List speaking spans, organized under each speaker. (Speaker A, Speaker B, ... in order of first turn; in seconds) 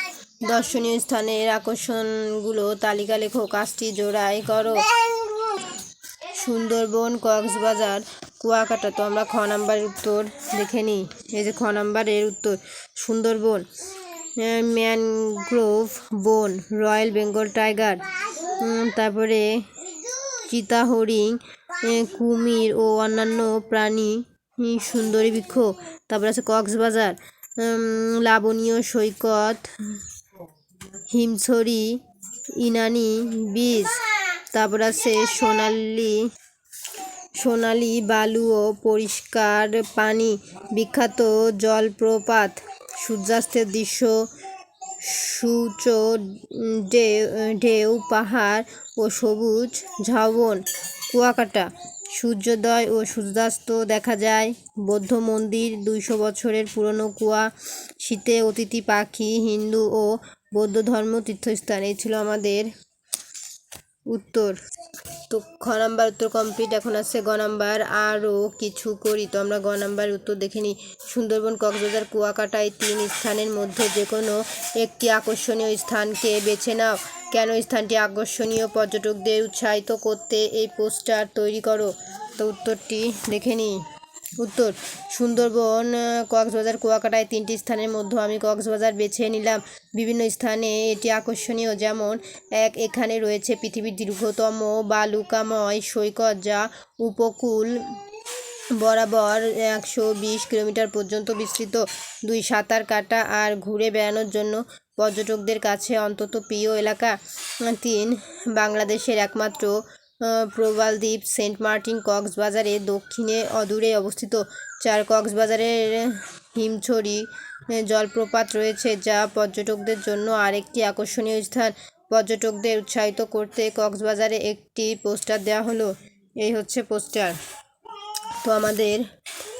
Speaker A: 0.5-4.9, 6.3-13.7, 14.4-19.6, 20.3-30.0, 31.1-32.0, 32.5-36.2, 37.4-44.2, 45.0-57.5, 58.0-62.7, 64.1-64.6, 65.3-83.8, 84.4-97.8, 98.8-127.4, 128.4-129.1